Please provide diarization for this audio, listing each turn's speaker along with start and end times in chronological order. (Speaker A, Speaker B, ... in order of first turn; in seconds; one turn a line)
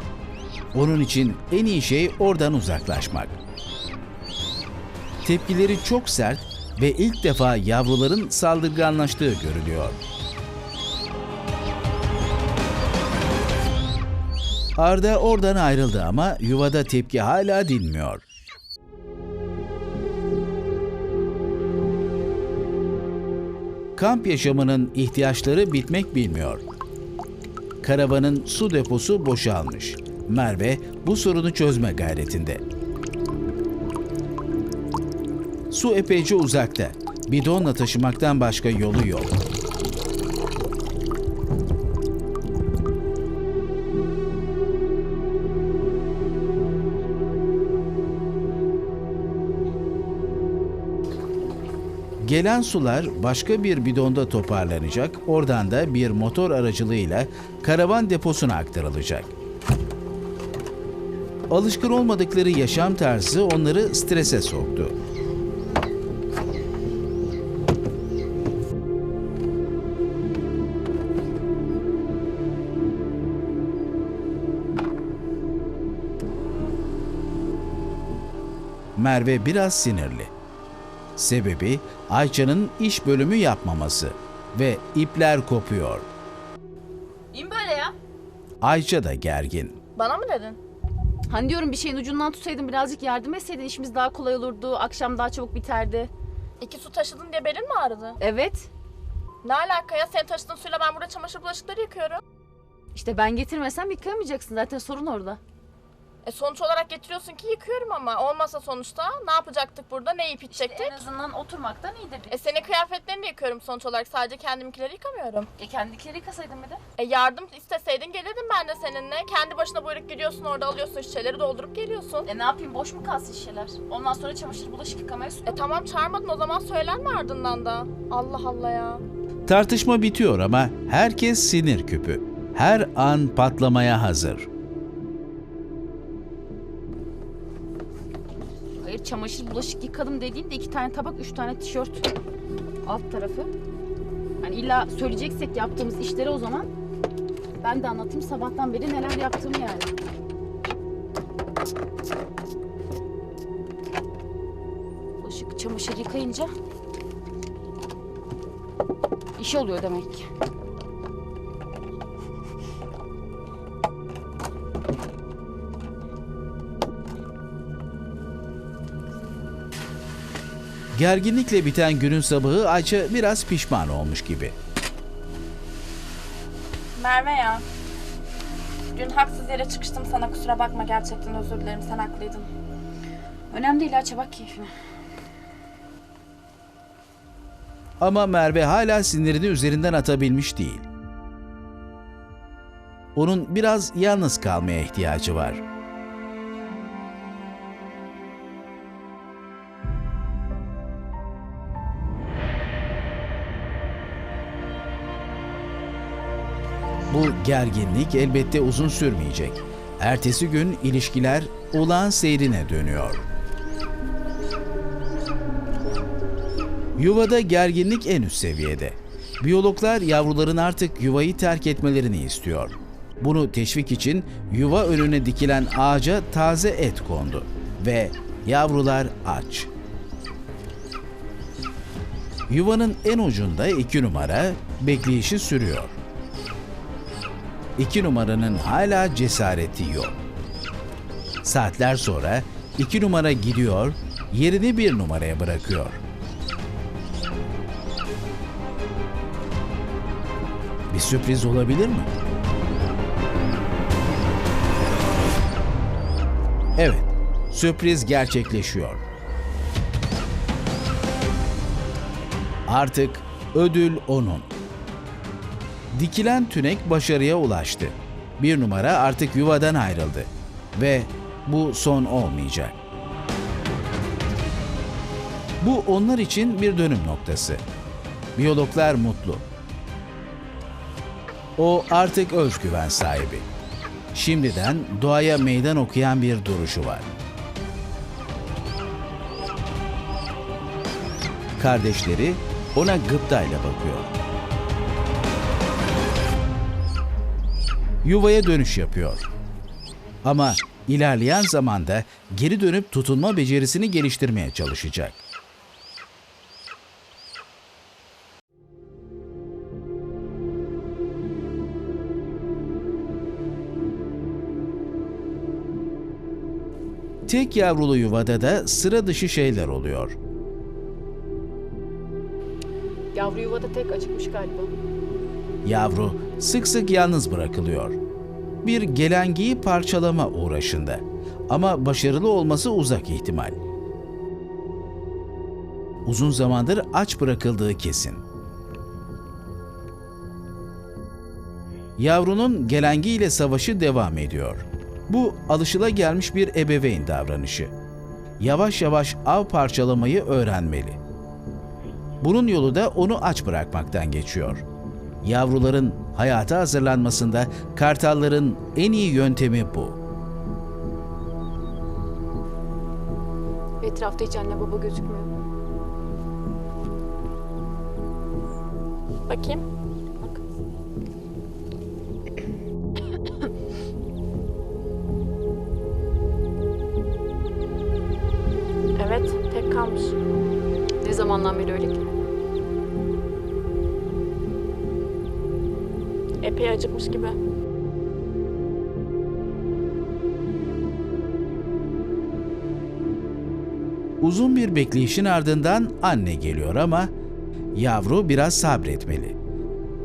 Speaker A: 0.7-3.4
Speaker A: 5.2-10.0
Speaker A: 14.8-18.2
Speaker A: 23.9-26.6
Speaker A: 27.8-32.6
Speaker A: 35.7-39.4
Speaker A: 52.2-59.3
Speaker A: 61.5-65.0
Speaker A: 79.0-80.3
Speaker A: 81.2-86.1
Speaker B: 87.3-87.9
Speaker A: 88.6-89.8
Speaker C: 90.0-90.6
Speaker B: 91.3-96.1
Speaker C: 96.6-98.2
Speaker B: 98.2-98.7
Speaker C: 99.4-102.2
Speaker B: 102.9-105.4
Speaker C: 106.2-111.0
Speaker B: 110.5-112.6
Speaker C: 112.3-115.5
Speaker B: 115.6-116.8
Speaker C: 117.0-122.3
Speaker B: 122.2-125.6
Speaker C: 125.5-129.0
Speaker A: 129.5-134.5
Speaker B: 138.8-142.1
Speaker B: 142.8-143.5
Speaker B: 144.4-146.7
Speaker B: 147.6-149.9
Speaker B: 155.2-156.5
Speaker B: 159.4-160.3
Speaker A: 170.9-174.6
Speaker C: 177.0-177.7
Speaker C: 178.9-182.5
Speaker B: 183.5-184.7
Speaker A: 188.0-190.8
Speaker A: 193.2-195.6
Speaker A: 207.1-213.2
Speaker A: 217.0-229.7
Speaker A: 232.5-236.0
Speaker A: 237.8-240.2
Speaker A: 241.4-246.0
Speaker A: 250.9-252.1
Speaker A: 256.8-259.0
Speaker A: 262.7-264.5
Speaker A: 265.9-272.8
Speaker A: 275.6-277.6
Speaker A: 278.4-279.5
Speaker A: 281.6-283.5
Speaker A: 284.1-287.1
Speaker A: 291.6-294.1
Speaker A: 298.0-299.3
Speaker A: 300.2-305.2
Speaker A: 317.2-320.2
Speaker B: 323.1-324.7
Speaker A: 325.6-328.0
Speaker A: 328.6-333.6
Speaker A: 336.1-338.2
Speaker A: 342.0-347.7
Speaker A: 348.4-351.0
Speaker A: 352.2-354.6
Speaker A: 355.2-360.0
Speaker B: 363.8-365.3
Speaker C: 369.3-369.6
Speaker C: 379.0-380.2
Speaker B: 381.0-382.0
Speaker C: 386.4-387.4
Speaker A: 394.2-397.1
Speaker A: 397.7-399.4